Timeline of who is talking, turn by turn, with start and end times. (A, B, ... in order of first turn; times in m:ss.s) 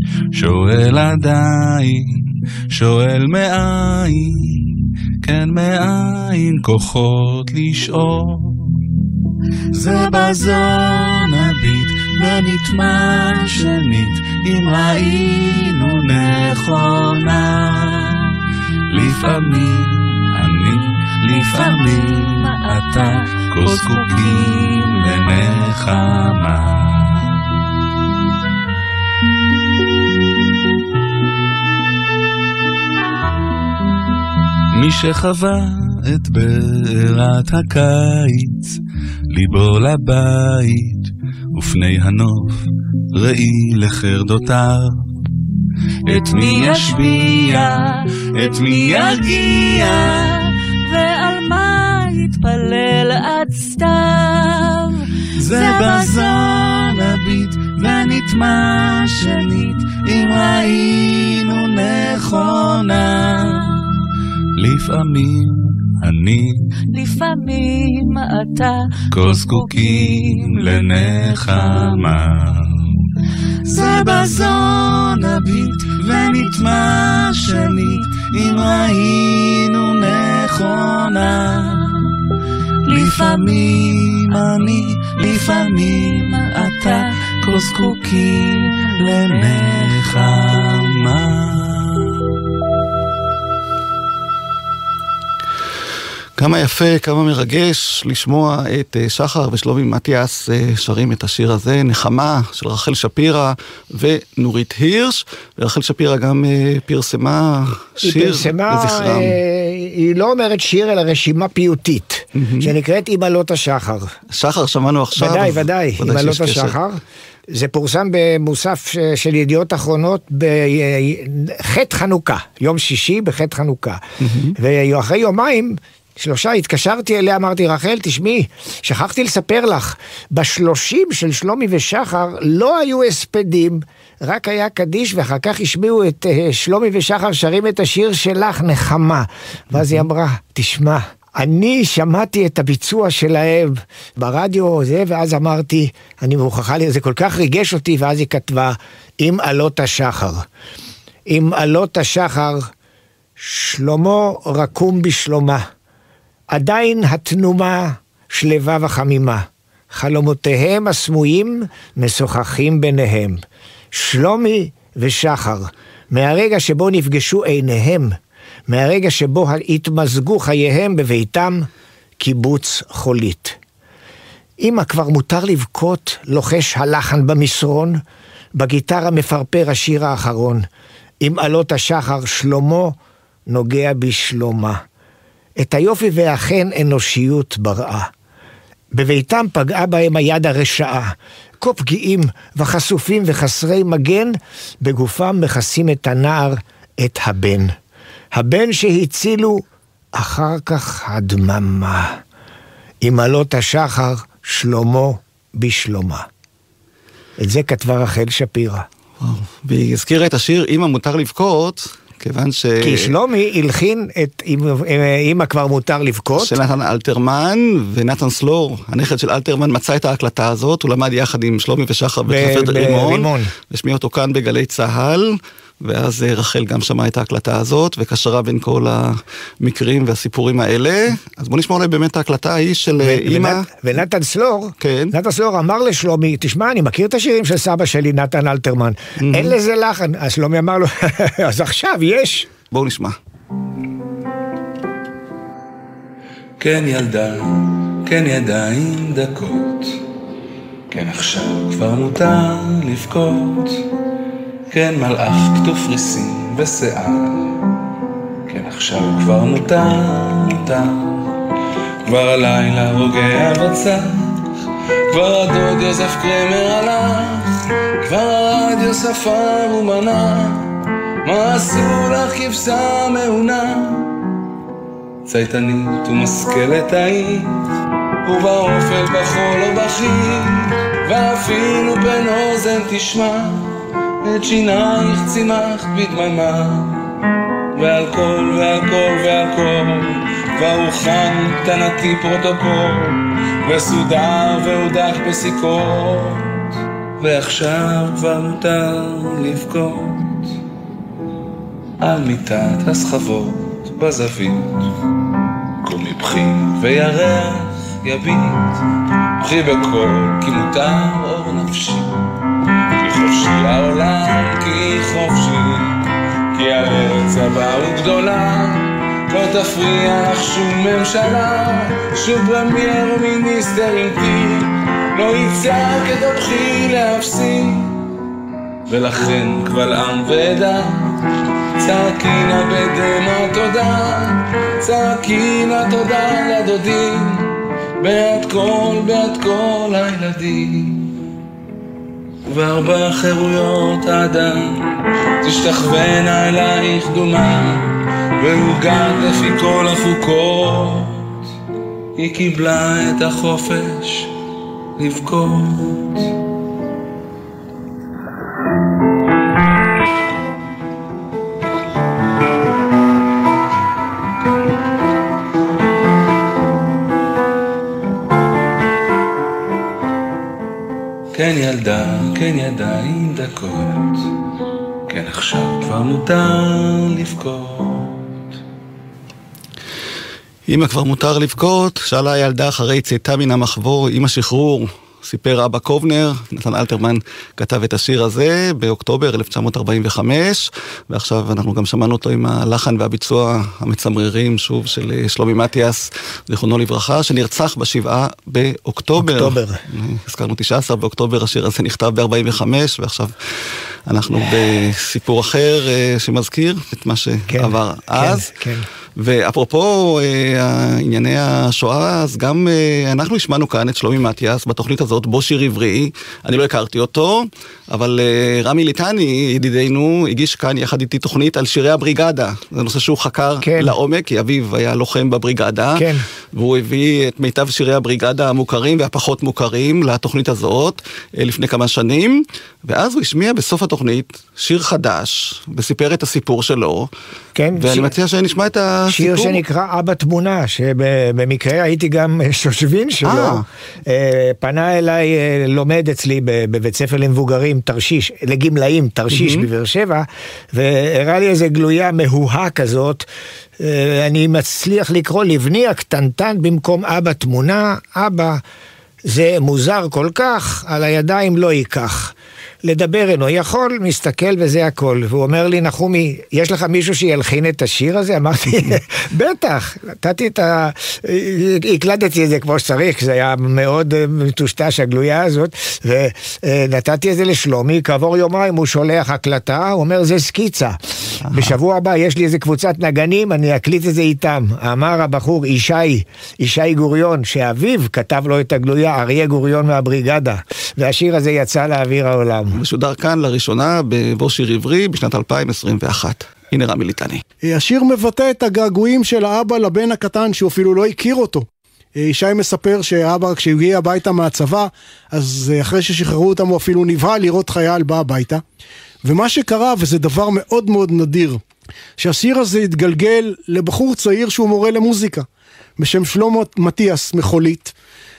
0:00.3-0:08.8 A
0:09.7-0:18.3 A
0:18.9-0:27.5 A
0:21.4-0:24.6 B
0:34.7-0:38.8 A
0:39.3-0:45.1 A
0:46.0-0:50.4 A
0:46.1-0:47.7 B
0:48.4-0:49.8 B
0:50.9-0:55.0 B
0:55.3-1:03.7 A
0:55.6-0:56.3 B
1:04.6-1:06.7 A
1:06.9-1:10.6 B
1:09.1-1:13.0 A
1:11.4-1:12.0 B
1:13.6-1:22.0 A
1:22.8-1:32.1 A
1:22.9-1:23.5 B
1:26.4-1:26.9 B
1:36.4-1:49.4 C
1:48.0-1:54.1 D
1:52.3-1:52.7 C
1:54.3-1:56.7 C
1:55.2-2:04.0 D
2:04.2-2:04.5 C
2:04.6-2:30.4 D
2:31.3-2:32.7 D
2:33.4-2:35.7 D
2:36.5-2:48.2 D
2:48.7-2:51.7 D
2:52.2-2:53.6 D
2:54.6-2:58.0 D
2:58.5-3:00.7 D
3:01.2-3:03.0 D
3:03.5-3:04.8 D
3:05.6-3:08.1 D
3:08.9-3:17.7 D
3:18.3-3:22.2 D
3:23.0-3:26.2 D
3:27.4-3:28.8 D
3:29.2-3:33.1 C
3:32.8-3:36.6 D
3:36.4-3:53.6 C
3:42.3-3:43.5 D
3:53.0-4:02.5 D
3:54.8-3:55.1 C
3:59.2-3:59.5 C
4:02.7-4:03.2 C
4:06.6-4:10.0 A
4:10.9-4:13.8 A
4:14.7-4:17.6 A
4:18.5-4:21.3 A
4:22.0-4:24.5 A
4:25.1-4:27.5 A
4:28.0-4:30.7 A
4:31.2-4:34.0 A
4:35.3-4:37.6 A
4:38.2-4:47.0 A
4:47.7-5:00.5 A
5:02.0-5:04.9 A
5:05.8-5:08.8 A
5:09.4-5:12.1 A
5:13.0-5:28.0 A
5:28.9-5:31.2 A
5:31.8-5:41.2 A
5:42.4-5:51.3 A
5:52.2-5:54.3 A
5:55.0-5:56.2 A
6:11.3-6:14.3 A
6:15.1-6:18.3 A
6:20.7-6:43.3 C
6:39.2-6:39.8 D
6:44.1-6:48.5 C
6:47.5-6:48.8 D
6:49.2-7:17.1 C
7:03.6-7:03.9 D
7:06.0-7:06.2 D
7:17.5-7:18.1 D
7:17.8-7:19.6 C
7:19.1-7:33.3 D
7:23.2-7:23.6 C
7:29.3-7:29.7 C
7:33.8-7:38.6 D
7:39.2-8:12.8 D
8:01.4-8:01.7 C
8:12.7-8:17.4 C
8:17.6-8:28.6 E
8:29.2-8:31.6 E
8:32.2-8:35.4 E
8:36.0-8:37.9 E